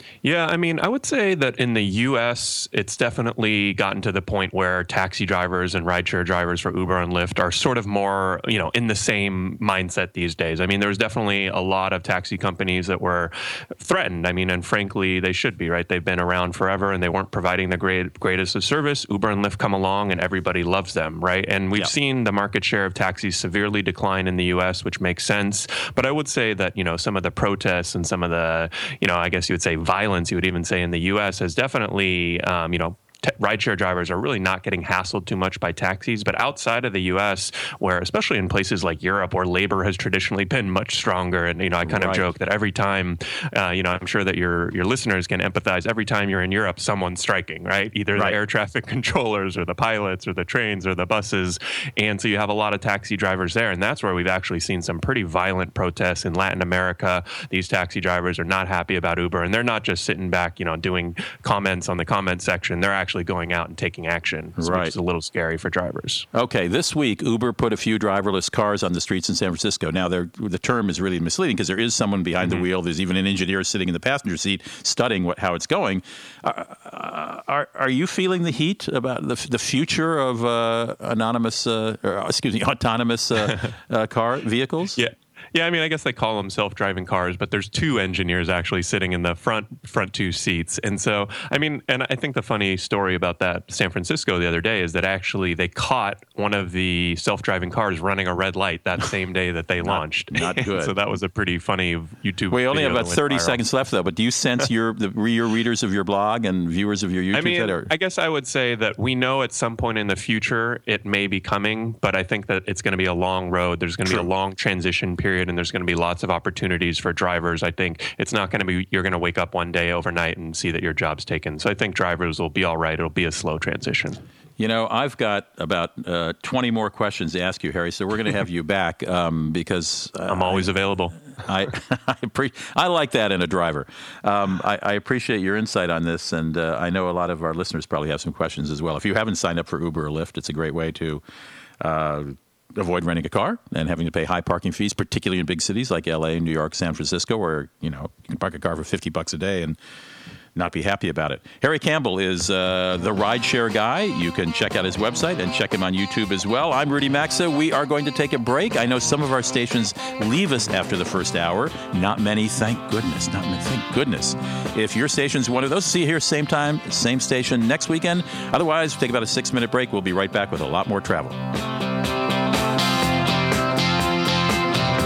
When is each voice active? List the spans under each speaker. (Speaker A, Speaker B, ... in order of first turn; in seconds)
Speaker A: 0.2-66.3, 72.4-72.7, 85.0-103.6, 107.3-124.2, 130.3-131.2
Speaker B: 41.9-42.3, 64.6-64.9, 66.3-85.0, 99.8-100.9, 102.5-107.9, 124.6-130.7, 131.4-141.2, 141.8-149.8, 150.6-171.4